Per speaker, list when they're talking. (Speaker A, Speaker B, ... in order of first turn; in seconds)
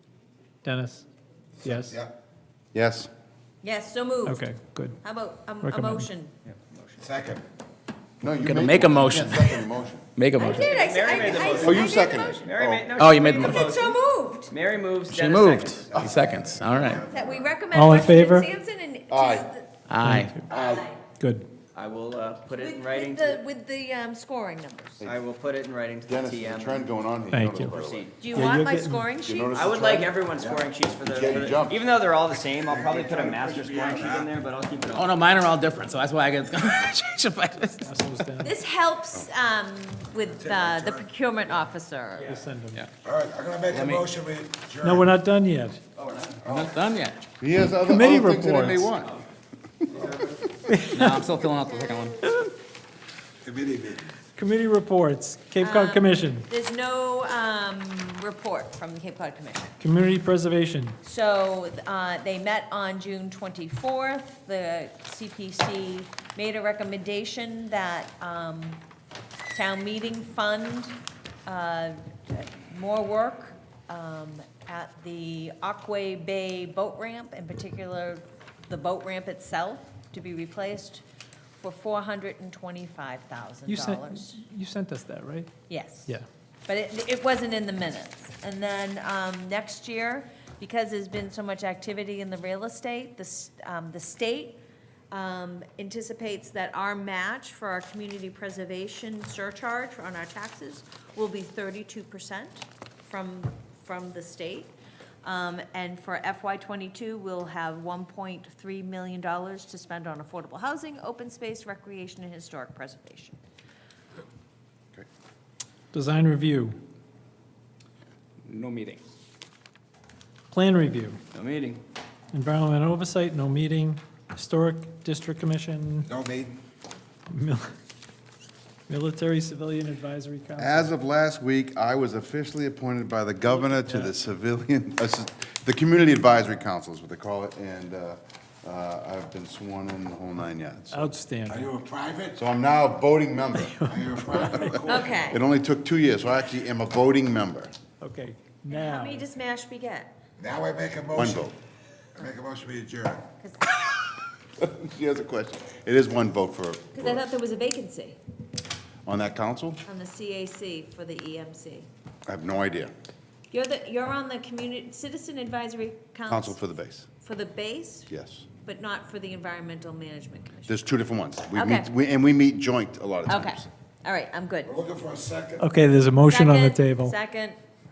Speaker A: 0.6-1.1, 1.6-2.0, 4.2-5.0, 5.6-6.1, 17.7-18.5, 20.0-20.4, 21.2-21.5, 27.3-27.8, 28.3-29.1, 37.8-38.5, 42.3-42.8, 44.8-45.8, 47.8-48.9, 50.7-51.2, 54.4-56.5, 59.8-61.0, 83.7-85.5, 115.9-116.8, 120.5-121.2, 122.3-126.1, 127.3-127.7, 128.9-130.9, 133.6-134.1, 140.9-141.7, 143.6-144.1, 148.0-149.3, 175.6-177.2
Speaker B: 1.6-2.1, 7.0-7.4, 20.5-20.9, 30.4-30.6, 32.7-34.3, 40.3-41.1, 43.0-45.1, 46.1-46.8, 49.9-50.2, 53.4-54.1, 126.0-126.6, 141.5-142.4, 143.9-145.3, 150.4-151.5, 152.2-153.2, 174.7-175.6
Speaker C: 2.7-3.1, 8.2-10.1, 11.4-12.9, 15.9-17.5, 19.1-19.5, 26.1-28.1, 29.2-30.1, 31.1-31.8, 47.4-49.1, 130.6-141.1, 142.4-147.7, 151.1-151.5, 154.6-157.3, 159.1-159.8, 162.3-162.9, 166.3-167.1, 168.1-168.5, 170.7-173.7
Speaker D: 3.6-6.3, 10.4-12.5, 13.4-14.5, 17.1-19.7, 20.5-21.0, 22.5-25.0, 28.2-29.7, 38.4-42.3, 55.6-59.7, 61.0-68.8, 69.5-81.0, 81.6-84.4, 85.7-86.1, 86.7-94.6, 95.1-104.7, 105.2-113.4, 144.8-145.4, 148.7-150.1, 153.4-153.7, 156.9-158.2, 159.8-161.9, 163.5-166.6, 167.2-168.1, 168.6-170.8, 171.5-171.9, 173.3-174.7, 176.3-177.6
Speaker E: 6.5-7.0, 10.7-14.0, 14.5-15.8, 21.7-23.4, 25.1-26.9, 27.7-28.1, 29.6-35.1, 121.3-121.8
Speaker F: 8.3-9.6, 10.2-10.8, 12.9-13.7, 15.1-17.0, 19.9-20.4, 34.9-37.9, 43.7-44.1, 46.4-47.2, 50.9-52.2, 118.5-119.0